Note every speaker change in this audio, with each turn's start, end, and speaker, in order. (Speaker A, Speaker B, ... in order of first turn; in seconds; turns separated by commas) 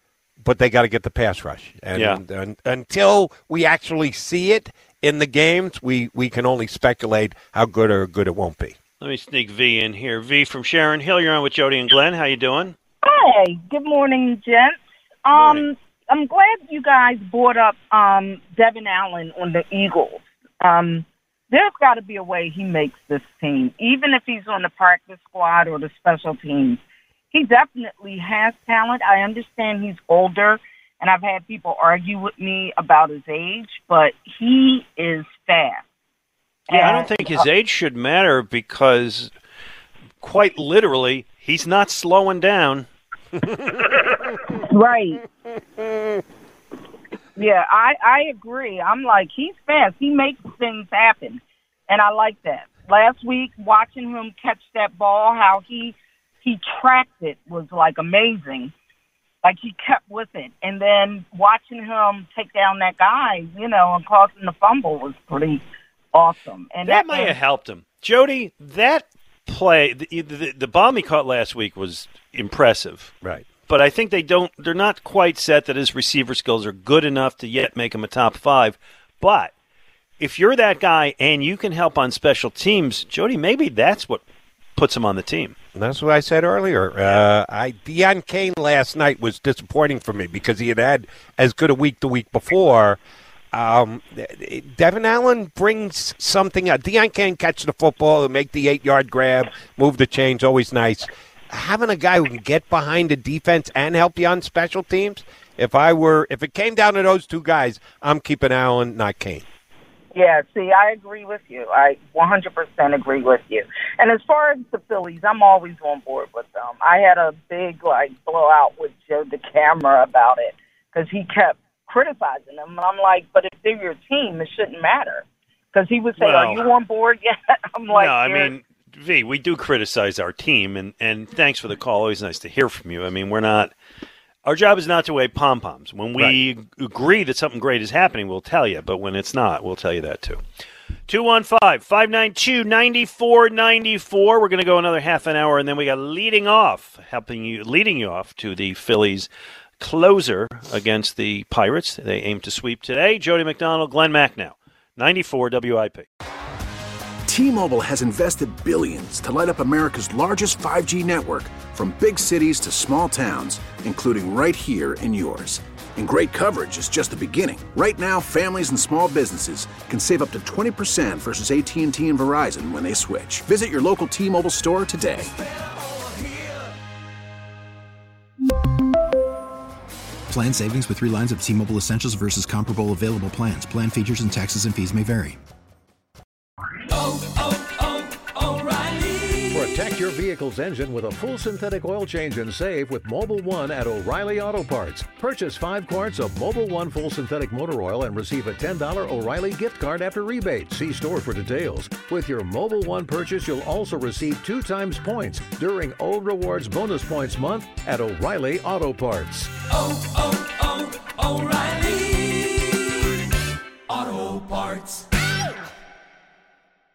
Speaker A: 0.4-8.8, Speaker B: 1.9-2.2, Speaker B: 9.0-12.8, Speaker C: 13.0-26.8, Speaker B: 15.3-15.6, Speaker C: 27.3-35.8, Speaker C: 36.7-37.5, Speaker B: 36.7-39.3, Speaker B: 40.2-42.9, Speaker C: 44.7-45.2, Speaker C: 47.4-58.7, Speaker C: 59.4-67.4, Speaker B: 66.9-73.1, Speaker B: 73.7-79.5, Speaker B: 80.2-84.2, Speaker B: 84.8-85.5, Speaker A: 85.8-93.0, Speaker A: 93.5-109.4, Speaker C: 110.1-128.6, Speaker B: 126.2-126.7, Speaker B: 127.9-133.7, Speaker B: 134.4-140.4, Speaker B: 141.1-149.3, Speaker B: 149.8-156.1, Speaker D: 157.3-175.3, Speaker E: 180.3-185.4, Speaker F: 189.5-209.5